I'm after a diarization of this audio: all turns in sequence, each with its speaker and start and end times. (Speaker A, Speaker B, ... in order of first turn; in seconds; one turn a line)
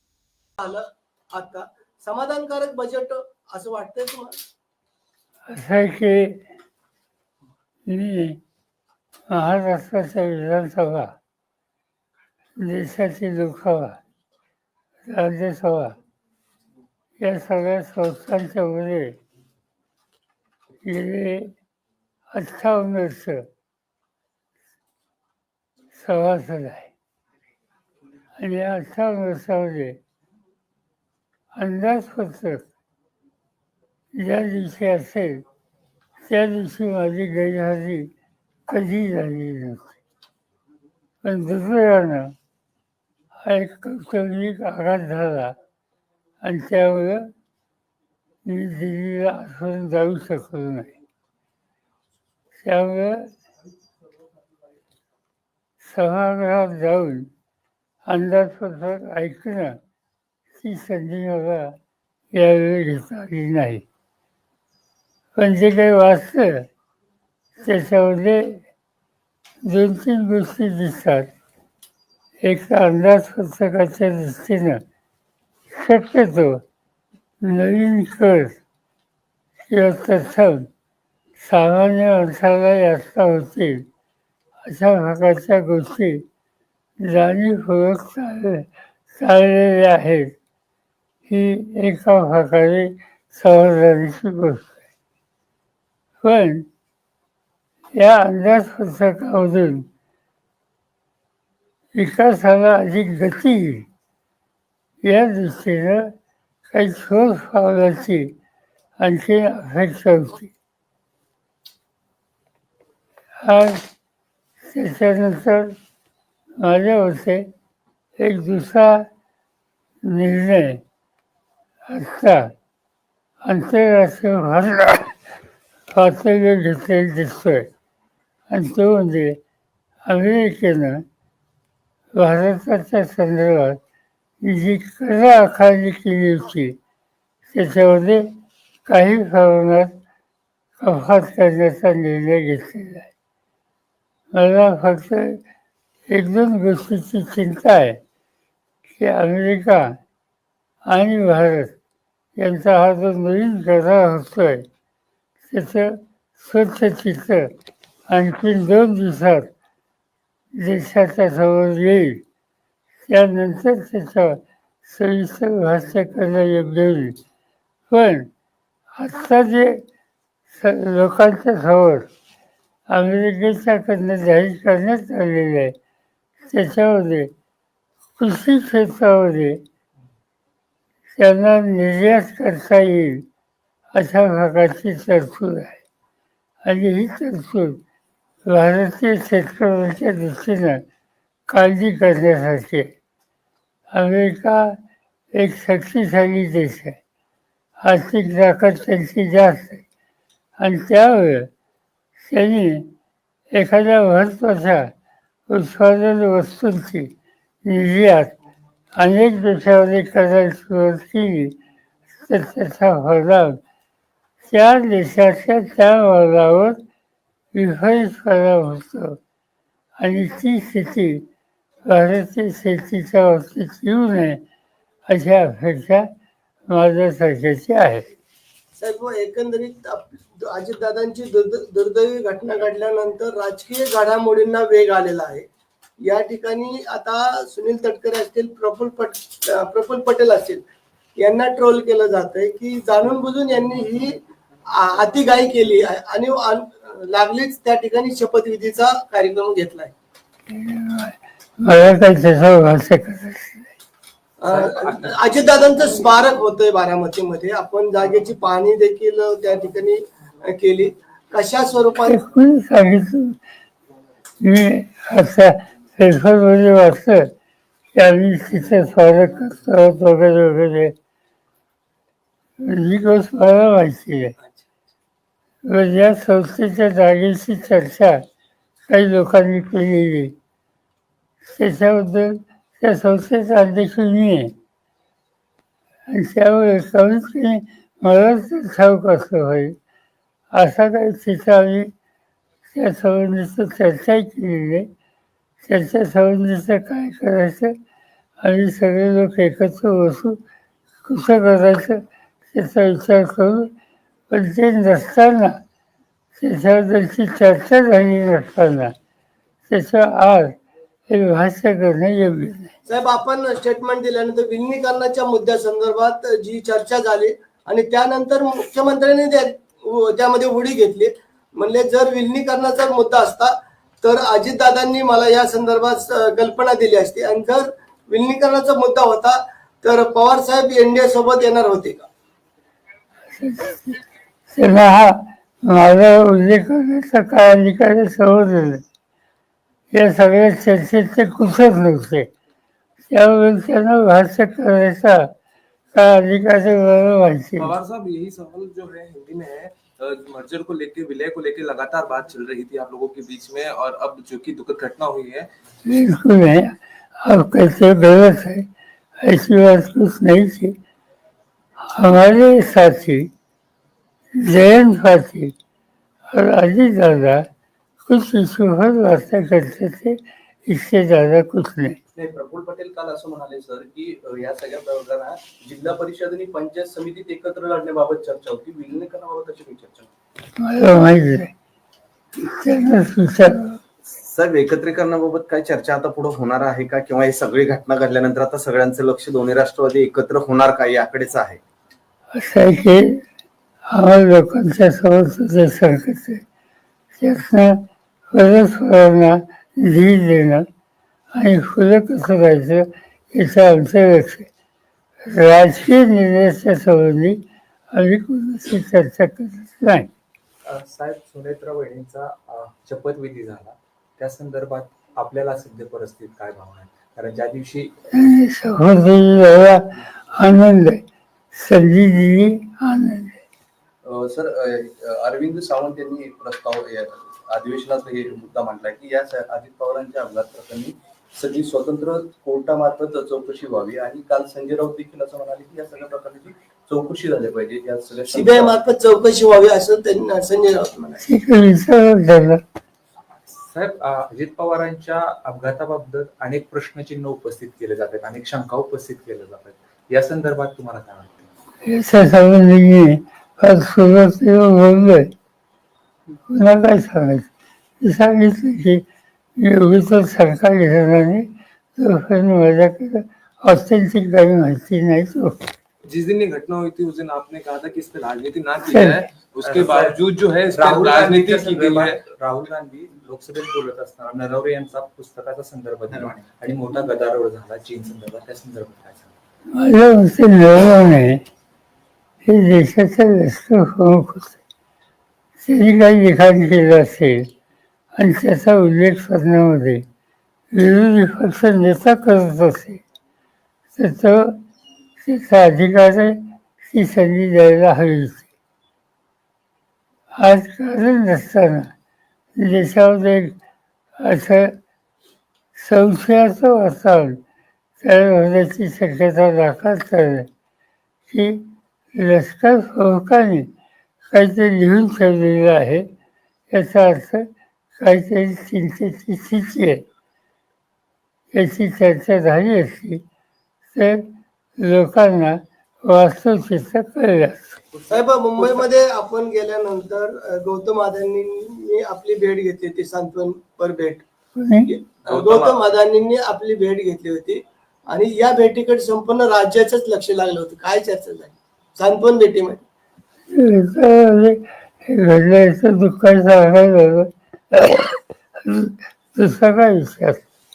Speaker A: 0.6-4.4
Speaker B: 5.5-6.4
Speaker B: 7.9-8.4
Speaker B: 9.3-11.2
Speaker B: 12.6-14.0
Speaker B: 15.1-16.0
Speaker B: 17.2-19.2
Speaker B: 20.9-21.5
Speaker B: 22.3-23.5
Speaker B: 25.9-26.9
Speaker B: 28.4-30.0
Speaker B: 31.5-32.6
Speaker B: 34.2-35.4
Speaker B: 36.2-38.1
Speaker B: 38.7-39.9
Speaker B: 41.2-42.4
Speaker B: 43.4-45.6
Speaker B: 46.4-47.3
Speaker B: 48.5-51.0
Speaker B: 52.6-53.3
Speaker B: 55.8-57.3
Speaker B: 58.1-59.8
Speaker B: 60.6-61.8
Speaker B: 62.3-63.9
Speaker B: 65.4-66.7
Speaker B: 67.6-68.6
Speaker B: 69.7-71.3
Speaker B: 72.4-74.8
Speaker B: 75.7-76.6
Speaker B: 77.4-78.6
Speaker B: 79.7-80.7
Speaker B: 81.4-83.9
Speaker B: 84.7-86.2
Speaker B: 87.0-90.3
Speaker B: 91.3-94.8
Speaker B: 96.2-96.7
Speaker B: 98.0-99.9
Speaker B: 101.9-103.9
Speaker B: 105.0-106.1
Speaker B: 106.7-108.3
Speaker B: 109.0-110.5
Speaker B: 113.4-113.8
Speaker B: 114.6-115.8
Speaker B: 116.6-117.5
Speaker B: 118.2-119.1
Speaker B: 120.0-120.8
Speaker B: 121.9-122.5
Speaker B: 123.4-125.1
Speaker B: 125.9-127.7
Speaker B: 128.5-129.4
Speaker B: 130.1-131.0
Speaker B: 132.2-133.8
Speaker B: 134.4-136.8
Speaker B: 137.5-138.3
Speaker B: 138.9-139.9
Speaker B: 140.8-143.1
Speaker B: 144.3-145.4
Speaker B: 146.1-148.0
Speaker B: 149.0-150.0
Speaker B: 150.9-151.8
Speaker B: 152.4-154.7
Speaker B: 155.5-157.5
Speaker B: 158.1-159.5
Speaker B: 160.6-162.2
Speaker B: 163.1-167.2
Speaker B: 167.9-168.3
Speaker B: 168.9-169.8
Speaker B: 170.5-172.1
Speaker B: 172.9-175.8
Speaker B: 176.5-177.3
Speaker B: 178.2-179.6
Speaker B: 181.1-183.2
Speaker B: 183.9-185.8
Speaker B: 186.6-187.8
Speaker B: 188.5-190.8
Speaker B: 191.5-192.9
Speaker B: 193.9-194.8
Speaker B: 195.3-197.0
Speaker B: 197.8-199.8
Speaker B: 200.6-201.5
Speaker B: 202.2-202.9
Speaker B: 203.5-204.9
Speaker B: 205.5-208.3
Speaker B: 209.0-211.6
Speaker B: 212.3-213.6
Speaker B: 214.5-216.8
Speaker B: 217.5-219.2
Speaker B: 220.0-221.2
Speaker B: 221.9-224.4
Speaker B: 225.1-226.1
Speaker B: 226.7-228.1
Speaker A: 228.8-235.4
Speaker A: 236.0-240.6
Speaker A: 241.2-244.2
Speaker A: 244.8-249.9
Speaker B: 250.5-253.7
Speaker A: 254.4-262.2
Speaker C: 254.5-255.1
Speaker B: 262.1-263.4
Speaker B: 264.4-267.3
Speaker B: 268.0-270.9
Speaker B: 272.6-274.3
Speaker B: 275.7-278.2
Speaker B: 278.9-280.3
Speaker B: 281.4-284.5
Speaker B: 286.1-289.8
Speaker B: 290.5-291.9
Speaker B: 292.7-294.9
Speaker B: 295.6-297.8
Speaker B: 298.4-300.4
Speaker B: 301.1-303.7
Speaker B: 304.3-305.6
Speaker B: 306.4-308.9
Speaker B: 309.7-310.6
Speaker B: 311.1-312.7
Speaker A: 312.9-332.1
Speaker B: 333.4-334.0
Speaker B: 334.5-338.8
Speaker B: 339.9-342.3
Speaker B: 343.1-345.3
Speaker B: 345.9-347.8
Speaker D: 347.6-355.5
Speaker B: 355.9-356.7
Speaker B: 357.2-358.6
Speaker B: 359.2-360.8
Speaker B: 361.9-363.3
Speaker B: 364.4-365.5
Speaker B: 366.3-367.4
Speaker B: 368.1-372.0
Speaker E: 372.1-380.1
Speaker B: 380.6-381.5
Speaker B: 382.4-383.8
Speaker F: 384.2-391.6
Speaker B: 392.3-393.2
Speaker B: 393.9-396.4
Speaker B: 397.2-397.8
Speaker B: 398.3-400.6
Speaker B: 401.3-404.5
Speaker B: 405.2-410.1
Speaker C: 410.6-417.9
Speaker B: 418.1-421.0
Speaker B: 421.5-423.4
Speaker E: 424.0-438.9
Speaker A: 438.3-441.2
Speaker B: 441.2-442.6
Speaker C: 443.5-451.5
Speaker B: 451.9-455.3
Speaker B: 456.5-457.5
Speaker B: 458.0-459.0
Speaker B: 459.6-461.5
Speaker B: 462.0-465.7
Speaker D: 466.1-472.2
Speaker B: 468.9-469.2
Speaker C: 469.6-470.2
Speaker C: 470.7-479.3
Speaker B: 479.8-481.4
Speaker B: 482.5-484.6
Speaker B: 485.6-487.5
Speaker B: 488.1-490.1
Speaker B: 490.7-493.0
Speaker B: 493.9-494.6
Speaker B: 495.2-498.5
Speaker B: 500.4-501.9
Speaker B: 502.6-503.6
Speaker B: 504.2-504.7
Speaker B: 505.8-507.4
Speaker B: 508.0-510.5
Speaker B: 511.3-513.7
Speaker B: 514.3-516.1
Speaker B: 516.7-520.0
Speaker B: 521.5-523.2
Speaker B: 523.9-524.3
Speaker B: 524.8-527.8
Speaker A: 528.1-534.2
Speaker B: 534.6-534.9
Speaker A: 534.9-542.8
Speaker D: 535.3-535.8
Speaker B: 543.5-550.4